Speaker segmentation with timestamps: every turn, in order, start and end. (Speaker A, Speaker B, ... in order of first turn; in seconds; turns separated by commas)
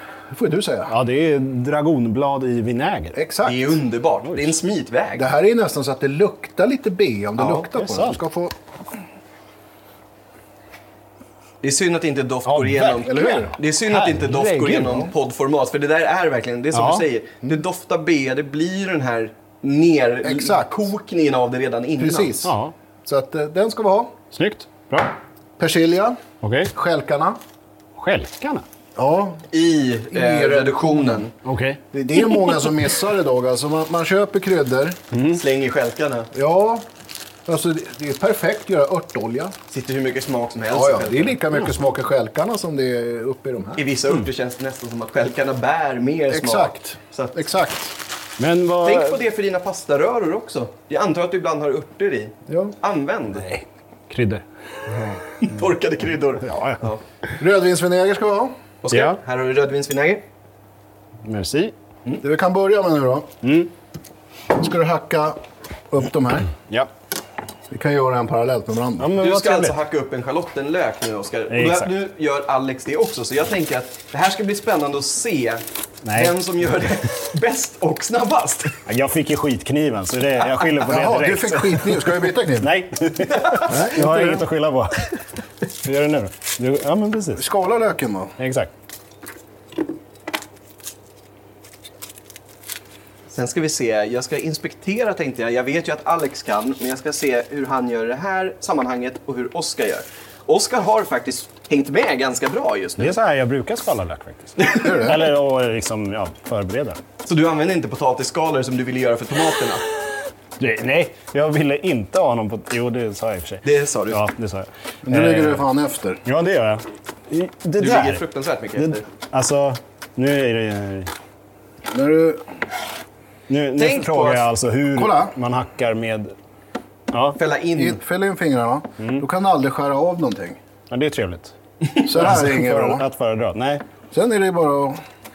Speaker A: 0.3-0.9, Speaker B: 0.9-3.2, Speaker A: 3.1-3.8, Speaker C: 3.4-5.2, Speaker B: 4.2-4.5, Speaker A: 5.2-8.5, Speaker C: 7.4-7.6, Speaker B: 7.6-8.2, Speaker C: 11.6-22.4, Speaker B: 12.4-15.1, Speaker A: 13.0-13.6, Speaker B: 16.7-17.1, Speaker A: 20.2-20.9, Speaker A: 22.0-22.5, Speaker B: 22.4-22.7, Speaker A: 23.1-24.1, Speaker B: 24.3-25.1, Speaker A: 25.6-26.2, Speaker B: 26.4-26.7, Speaker A: 26.7-27.4, Speaker B: 27.9-28.6, Speaker A: 28.9-29.4, Speaker C: 29.5-31.3, Speaker A: 30.1-31.3, Speaker B: 31.4-31.8, Speaker A: 31.9-35.0, Speaker B: 35.1-35.4, Speaker C: 35.3-36.3, Speaker A: 36.3-36.9, Speaker A: 37.5-39.5, Speaker C: 39.7-41.4, Speaker A: 40.7-43.9, Speaker C: 43.8-47.4, Speaker A: 46.3-47.9, Speaker B: 48.4-49.2, Speaker C: 48.8-53.5, Speaker A: 52.5-52.7, Speaker B: 53.4-54.4, Speaker C: 55.4-57.0, Speaker B: 56.4-56.9, Speaker A: 57.4-58.5, Speaker C: 58.8-60.2, Speaker B: 58.9-59.2, Speaker B: 61.2-61.7, Speaker A: 62.2-63.3, Speaker B: 63.4-63.7, Speaker A: 64.5-65.4, Speaker A: 65.9-66.5, Speaker A: 67.7-69.1, Speaker B: 69.0-69.8, Speaker C: 69.2-75.6, Speaker B: 71.5-71.9, Speaker B: 76.0-76.3, Speaker C: 76.1-78.7, Speaker B: 78.9-85.1, Speaker A: 80.8-82.7, Speaker C: 83.5-83.7, Speaker A: 83.7-84.5, Speaker B: 85.8-87.4, Speaker A: 87.4-88.3, Speaker B: 88.4-88.7, Speaker C: 93.3-103.2, Speaker B: 103.0-107.0, Speaker C: 104.6-104.9, Speaker A: 104.8-105.2, Speaker C: 107.2-109.8, Speaker B: 110.6-115.7, Speaker C: 113.6-114.2, Speaker A: 115.1-116.2, Speaker B: 116.2-118.2, Speaker C: 117.8-119.0, Speaker B: 118.8-121.1, Speaker A: 121.9-122.4, Speaker B: 123.5-126.3, Speaker C: 123.8-124.5, Speaker A: 124.9-125.3, Speaker B: 127.1-127.4, Speaker C: 127.4-128.0, Speaker A: 127.7-130.6, Speaker B: 129.0-129.2, Speaker B: 130.9-131.5, Speaker A: 132.1-133.1, Speaker B: 132.1-133.8, Speaker A: 134.1-135.0